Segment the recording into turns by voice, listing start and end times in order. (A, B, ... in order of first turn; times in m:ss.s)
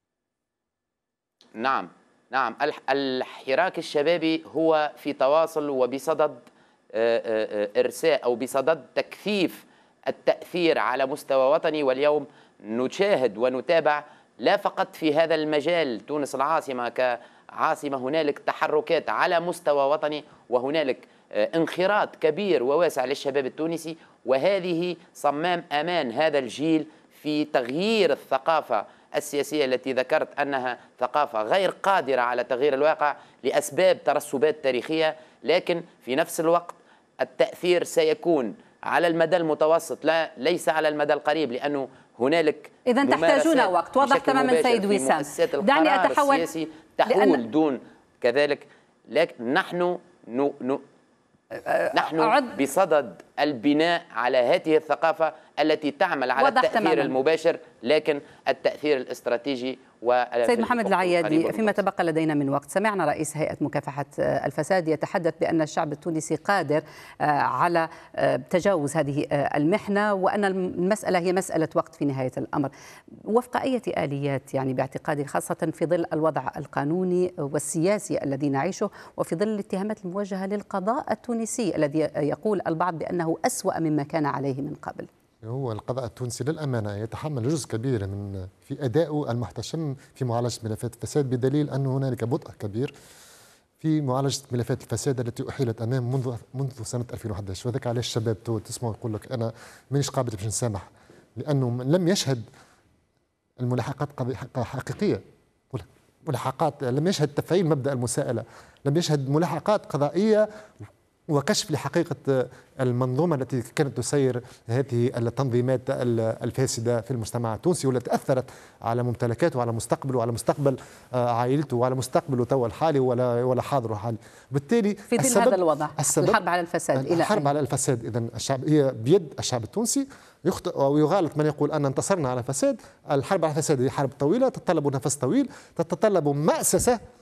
0:01.6-0:06.4 A
0:06.9-0:50.8 A
0:42.8-0:46.5 B
0:47.1-0:47.4 B
0:51.6-0:52.6 B
0:51.9-1:01.8 A
0:56.4-0:57.1 B
1:00.4-1:12.7 B
1:13.3-1:25.1 B
1:25.4-1:32.9 C
1:33.8-1:40.9 C
1:41.4-1:42.4 C
1:43.6-1:50.5 C
1:51.3-2:06.4 C
2:05.1-2:07.5 B
2:07.0-2:17.0 C